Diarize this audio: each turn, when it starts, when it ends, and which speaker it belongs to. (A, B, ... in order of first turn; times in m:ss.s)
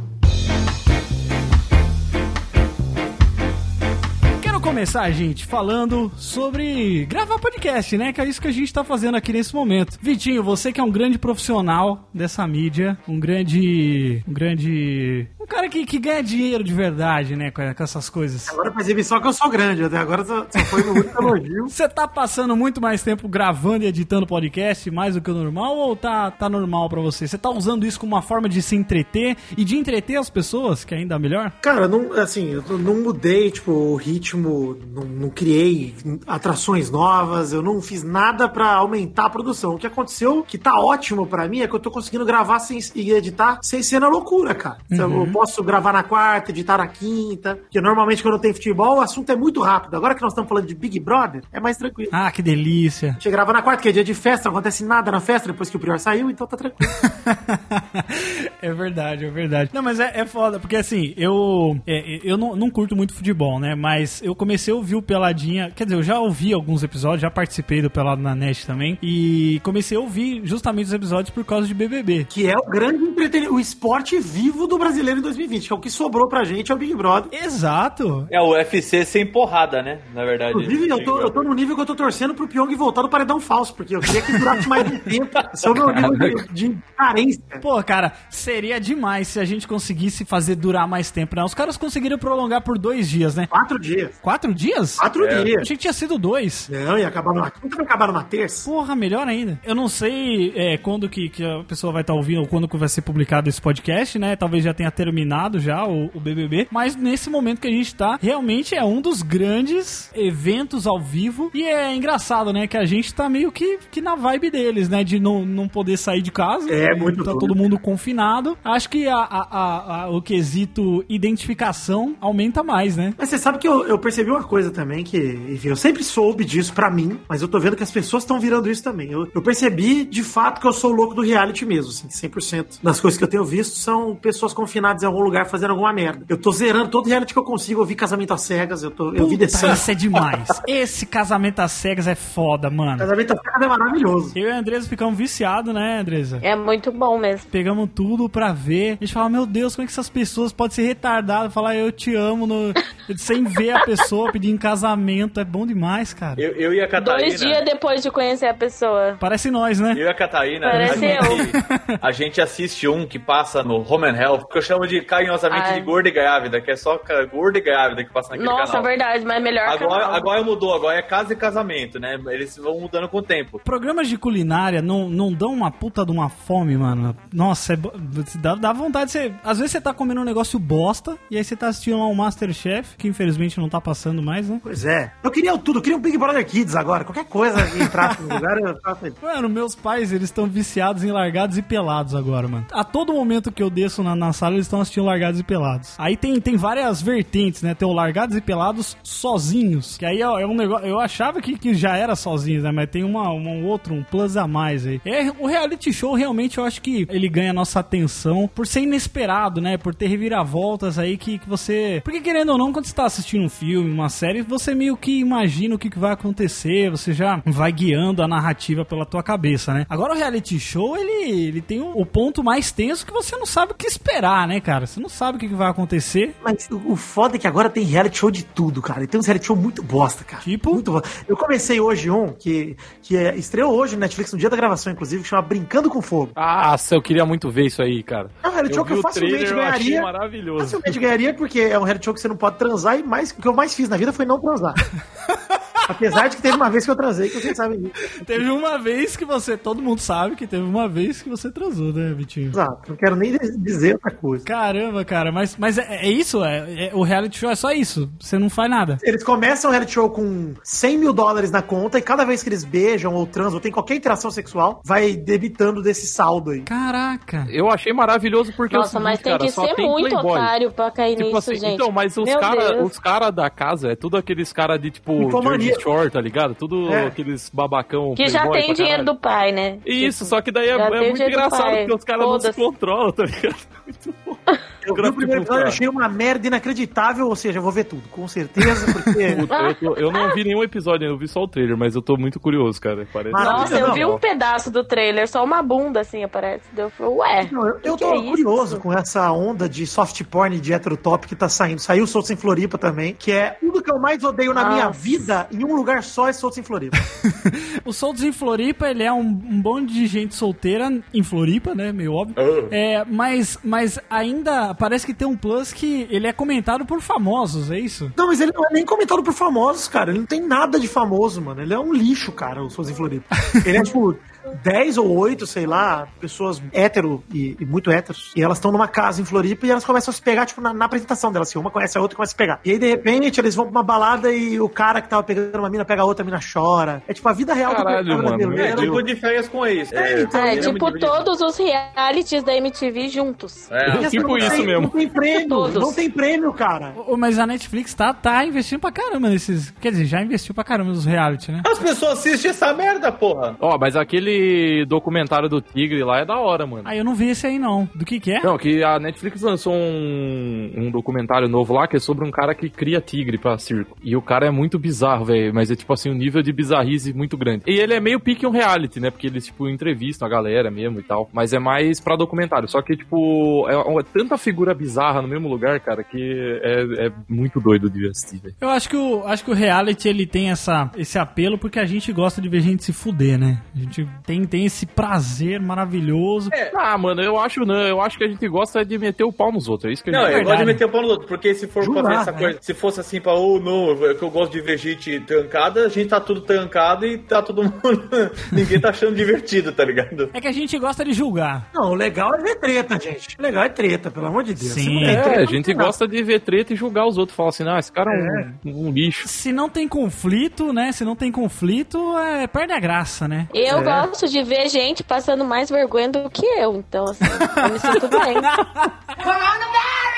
0:04.4-0:18.6 A
0:18.5-0:21.7 B
0:20.6-0:31.6 A
0:31.6-0:52.1 B
0:44.9-0:45.4 A
0:52.1-0:53.2 A
0:53.2-0:56.9 B
0:57.0-1:12.3 A
1:12.3-1:17.3 B
1:17.3-1:18.3 A
1:18.3-1:21.4 C
1:20.5-1:27.6 B
1:25.7-1:26.4 D
1:27.6-1:33.5 A
1:33.5-1:34.2 B
1:34.2-1:36.7 A
1:35.0-1:35.7 B
1:35.2-1:35.6 C
1:36.7-1:38.7 B
1:38.6-2:03.2 A
1:56.7-1:57.6 B
2:03.2-2:19.8 B
2:19.2-2:23.1 A
2:23.0-2:24.4 B
2:24.4-2:26.4 A
2:26.4-2:27.5 E
2:27.5-2:36.4 A
2:36.4-2:37.6 C
2:37.0-2:39.2 E
2:39.2-2:40.0 A
2:39.9-2:48.9 C
2:40.6-2:41.4 E
2:40.7-2:41.9 A
2:45.5-2:45.9 E
2:48.3-2:50.3 E
2:49.6-2:53.6 C
2:53.6-3:04.6 A
3:04.6-3:09.2 B
3:07.6-3:08.4 A
3:09.2-3:46.4 A
3:46.4-3:56.3 B
3:50.4-3:50.8 A
3:56.4-4:01.0 D
3:58.4-4:04.8 B
4:05.9-4:08.4 B
4:08.2-4:12.6 A
4:12.5-4:14.5 B
4:14.5-4:19.0 A
4:19.0-4:26.7 B
4:26.6-4:27.5 A
4:27.5-4:30.5 D
4:28.7-4:32.9 E
4:31.1-4:39.1 D
4:35.2-4:35.8 B
4:36.9-4:37.1 B
4:38.2-4:42.6 E
4:39.8-4:45.8 D
4:44.8-4:49.4 B
4:49.2-4:54.2 D
4:49.5-4:50.4 E
4:53.3-4:54.1 B
4:53.4-4:58.8 E
4:57.4-5:07.0 B
5:04.5-5:05.0 E
5:07.4-5:18.1 A
5:12.4-5:12.8 C
5:18.2-5:39.0 B
5:37.6-5:39.0 D
5:38.6-5:41.3 C
5:39.9-5:40.8 B
5:40.1-5:43.7 E
5:43.7-5:44.7 C
5:43.9-5:47.0 B
5:43.9-5:45.0 D
5:45.4-5:46.0 E
5:47.0-5:51.6 A
5:51.6-5:53.6 C
5:53.6-5:56.9 D
5:56.8-5:58.5 A
5:58.4-6:18.5 D
6:18.6-6:26.5 A
6:26.5-6:26.8 C
6:26.7-6:30.6 D
6:30.1-6:40.3 C
6:30.2-6:30.8 A
6:31.8-6:32.5 B
6:40.3-6:41.6 A
6:41.7-6:45.5 B
6:44.6-6:45.3 A
6:45.0-6:49.3 D
6:48.1-6:48.5 B
6:49.2-6:53.5 A
6:53.5-6:58.6 E
6:53.6-6:54.1 B
6:57.6-6:59.1 A